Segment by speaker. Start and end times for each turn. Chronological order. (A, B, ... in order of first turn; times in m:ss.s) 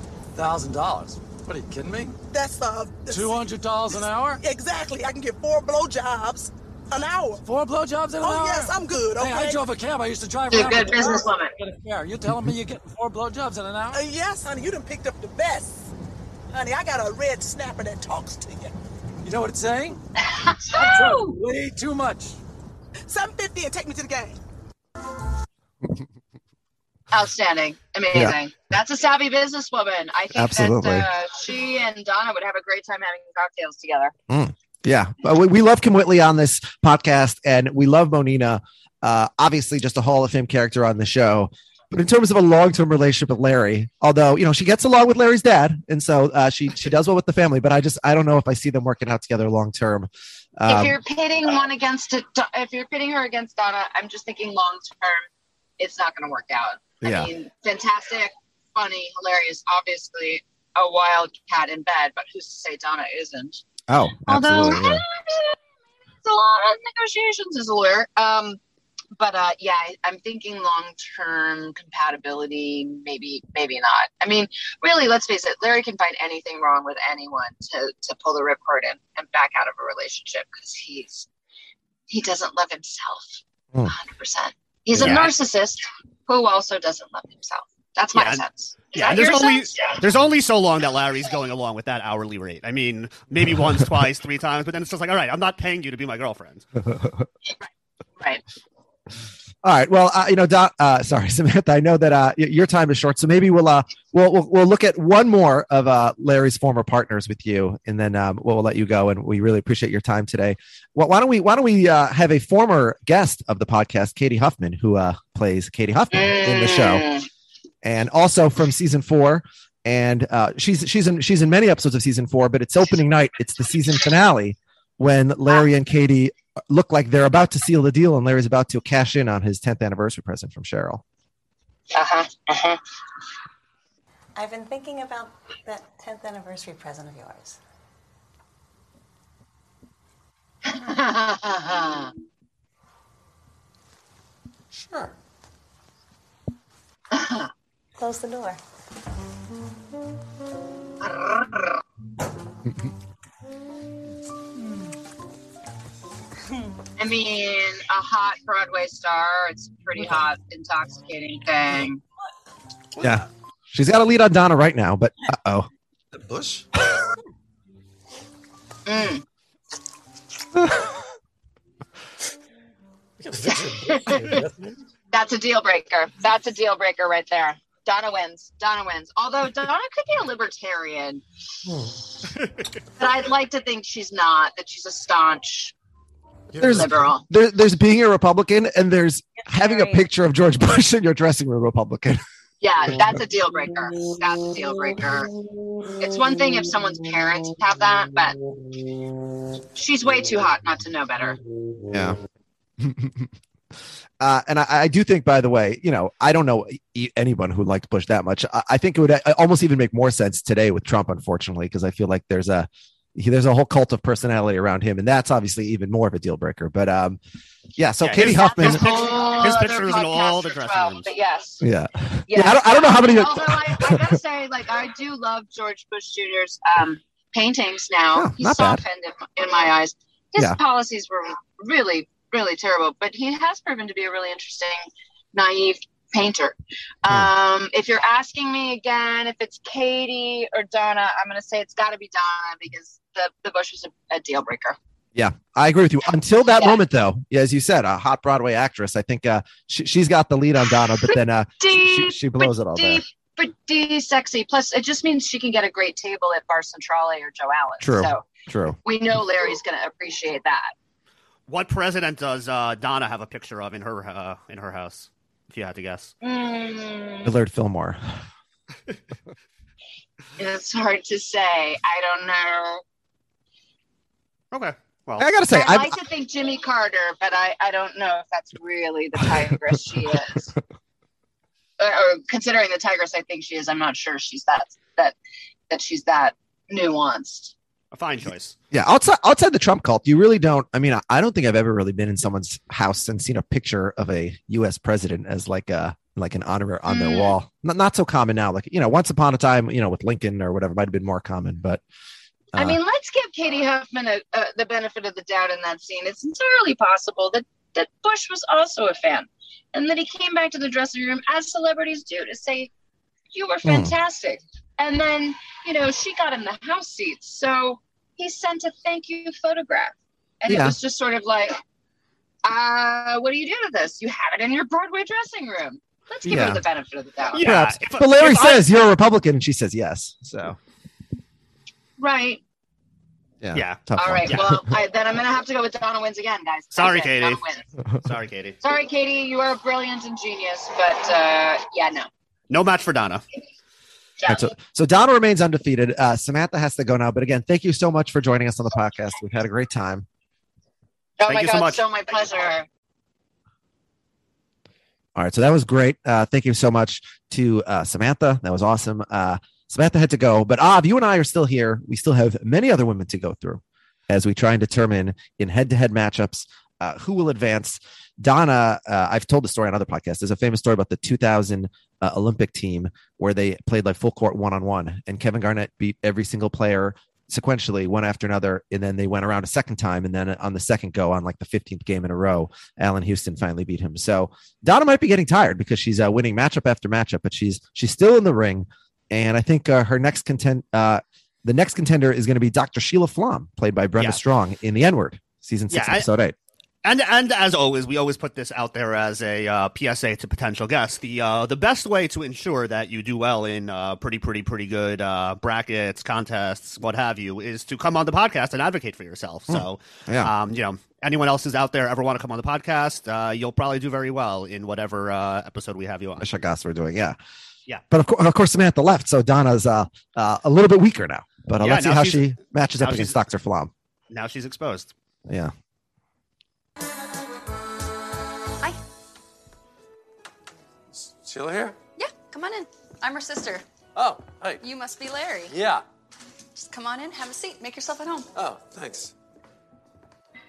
0:00.3-0:02.2 A
0:02.3-0:03.4 B
0:03.1-0:04.4 A
0:03.9-0:07.4 B
0:07.4-0:14.0 A
0:08.2-0:09.6 B
0:10.5-0:11.5 C
0:13.9-0:15.9 B
0:16.5-0:18.7 B
0:19.2-0:20.0 A
0:20.2-0:20.9 C
0:20.7-0:22.4 A
0:21.0-0:21.3 D
0:23.1-0:24.4 B
0:27.1-0:34.1 C
0:30.3-0:31.1 E
0:34.3-0:51.0 E
0:50.7-0:55.3 C
0:55.8-1:03.6 C
0:57.0-0:57.3 E
1:03.9-1:05.0 E
1:04.3-1:05.6 C
1:06.2-1:08.6 C
1:09.2-1:21.3 C
1:22.1-1:30.0 C
1:25.0-1:25.2 E
1:25.0-1:25.3 F
1:28.1-1:36.6 F
1:36.9-1:37.2 E
1:39.6-1:57.1 E
1:56.1-1:57.3 C
1:57.8-2:11.0 E
2:11.9-2:12.8 C
2:14.4-2:17.6 D
2:20.6-2:22.1 C
2:24.7-2:25.2 A
2:27.1-2:27.5 C
2:28.0-2:28.6 D
2:31.0-2:31.8 C
2:37.0-2:42.0 C
2:42.9-2:43.3 A
2:43.0-2:45.7 E
2:46.1-2:46.7 A
2:48.8-2:49.2 C
2:53.2-2:54.8 A
2:53.5-2:54.4 C
2:55.1-3:01.2 C
3:02.4-3:02.6 F
3:03.0-3:05.7 C
3:06.6-3:12.2 E
3:06.6-3:07.2 C
3:12.6-3:15.3 C
3:16.0-3:18.4 C
3:19.7-3:21.4 C
3:21.9-3:22.2 E
3:22.8-3:23.3 E
3:24.2-3:37.2 E
3:37.8-3:39.0 E
3:38.0-3:41.1 F
3:38.1-3:41.6 C
3:41.6-3:44.2 E
3:42.3-4:04.8 C
3:48.1-3:48.8 E
4:05.1-4:13.0 E
4:10.9-4:18.2 C
4:17.8-4:18.8 E
4:18.8-4:20.7 C
4:21.5-4:26.1 F
4:26.2-4:27.3 C
4:27.2-4:28.2 E
4:30.4-4:32.8 C
4:34.5-4:35.3 F
4:35.2-4:36.0 E
4:35.5-4:40.5 C
4:41.8-4:45.2 C
4:45.7-4:47.5 C
4:47.9-4:48.5 F
4:48.7-5:01.8 E
4:56.9-4:57.3 C
5:02.5-5:02.8 E
5:02.5-5:12.7 C
5:13.3-5:21.6 C
5:13.6-5:13.9 E
5:20.5-5:20.8 E
5:22.4-5:27.5 C
5:26.2-5:26.6 E
5:27.3-5:28.7 F
5:27.4-5:30.6 E
5:32.0-5:32.4 C
5:33.4-5:34.8 E
5:33.5-5:34.4 F
5:34.0-5:37.6 C
5:36.7-5:37.4 F
5:37.9-5:38.6 F
5:38.6-5:42.1 C
5:42.5-5:43.2 F
5:44.2-5:44.5 C
5:44.2-5:50.1 E
5:51.2-5:52.6 C
5:51.3-5:51.8 F
5:55.2-6:36.3 E
6:35.7-6:36.1 F
6:36.8-6:56.3 F
6:49.5-6:50.3 E
6:56.2-6:57.2 E
6:57.9-7:03.7 E
7:01.6-7:03.2 F
7:04.1-7:04.9 F
7:05.3-7:05.5 E
7:10.9-7:11.8 A
7:12.0-7:13.6 G
7:13.9-7:14.6 A
7:14.6-7:15.5 G
7:15.5-7:15.8 A
7:16.6-7:18.3 G
7:18.3-7:19.1 A